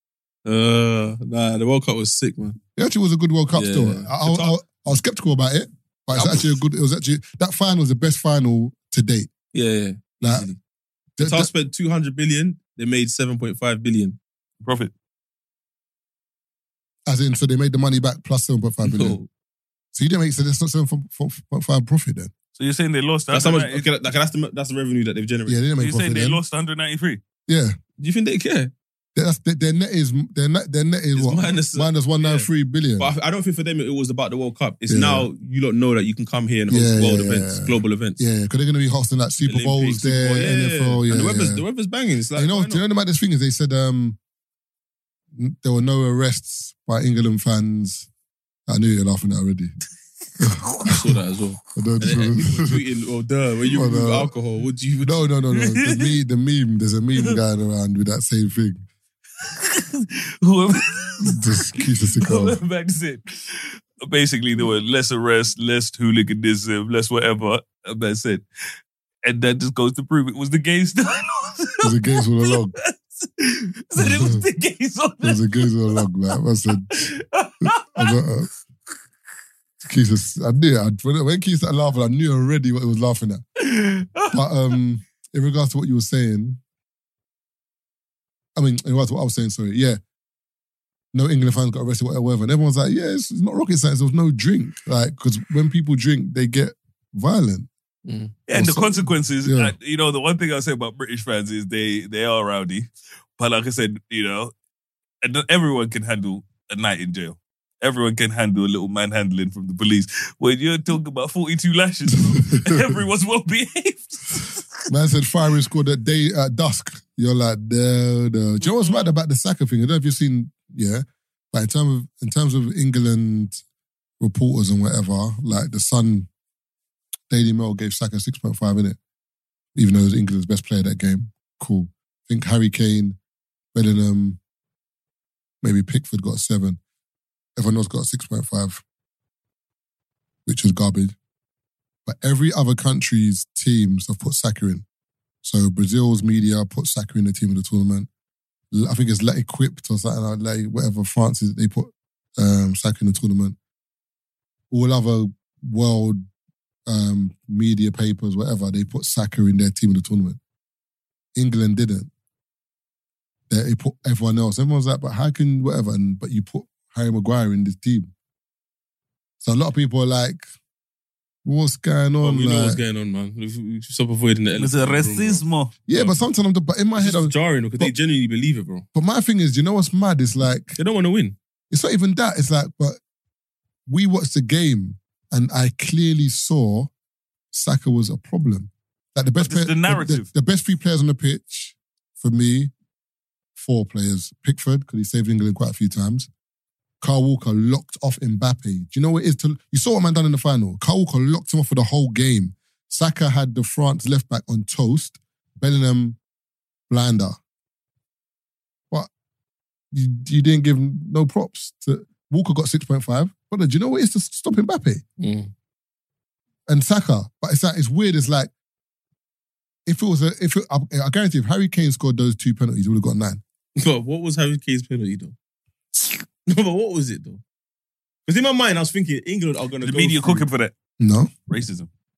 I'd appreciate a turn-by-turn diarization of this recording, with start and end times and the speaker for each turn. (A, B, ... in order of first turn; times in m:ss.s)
0:00.4-0:02.6 A
0:02.8-0:09.3 B
0:03.5-0:04.6 A
0:06.1-0:06.5 A
0:09.5-0:10.6 A
0:10.2-0:10.5 B
0:11.2-0:11.5 B
0:11.2-0:14.2 A
0:14.6-0:14.9 C
0:17.1-0:19.2 B
0:18.8-0:19.3 A
0:19.9-0:22.3 B
0:22.6-0:23.9 C
0:23.3-0:25.6 A
0:25.5-0:26.4 B
0:25.8-0:27.2 C
0:27.5-0:27.8 B
0:28.0-0:28.7 A
0:29.2-0:33.1 B
0:31.2-0:32.5 A
0:33.0-0:38.2 A
0:34.9-0:35.3 B
0:36.7-0:41.6 B
0:39.4-0:42.8 A
0:42.4-0:44.2 B
0:45.4-0:48.1 B
0:48.7-0:49.7 B
0:50.4-0:51.1 B
0:50.9-0:55.2 A
0:51.8-0:52.8 B
0:53.6-0:54.3 B
0:55.0-0:58.9 B
0:55.6-0:56.1 C
0:59.4-1:08.4 C
1:01.2-1:02.6 B
1:09.2-1:11.9 C
1:11.8-1:12.7 B
1:12.4-1:16.0 C
1:14.0-1:14.4 B
1:15.2-1:17.1 B
1:16.9-1:18.2 C
1:17.6-1:18.5 B
1:19.8-1:23.4 B
1:23.6-1:24.4 C
1:24.3-1:26.6 B
1:28.6-1:30.0 B
1:31.1-1:37.7 B
1:38.0-1:38.4 A
1:38.5-1:44.5 C
1:38.5-1:39.7 B
1:45.2-1:54.7 C
1:52.4-1:53.0 B
1:54.9-2:03.6 B
1:58.7-1:59.1 C
2:04.2-2:06.3 B
2:07.3-2:09.0 B
2:09.8-2:13.2 B
2:13.7-2:14.4 B
2:15.6-2:16.8 B
2:17.6-2:18.8 B
2:20.5-2:21.2 B
2:22.1-2:24.8 B
2:25.4-2:28.1 B
2:28.7-2:33.6 B
2:34.7-2:36.2 B
2:36.9-2:40.4 B
2:41.4-2:42.1 B
2:43.5-2:48.1 B
2:49.4-2:50.5 B
2:51.4-2:52.8 B
2:52.2-2:55.4 A
2:54.6-2:55.7 C
2:55.9-2:57.9 B
2:57.0-2:58.9 A
2:58.9-3:00.8 B
3:00.8-3:01.4 A
3:01.7-3:03.0 B
3:03.9-3:06.9 B
3:07.5-3:12.7 B
3:09.4-3:10.3 C
3:13.6-3:16.3 B
3:17.0-3:26.2 B
3:26.9-3:27.4 B
3:29.9-3:35.0 B
3:35.2-3:35.5 A
3:36.7-3:38.5 B
3:39.9-3:43.4 B
3:43.8-3:45.4 A
3:46.5-3:47.4 A
3:48.3-3:50.5 A
3:49.8-3:50.7 C
3:51.0-3:51.3 B
3:51.5-3:51.9 C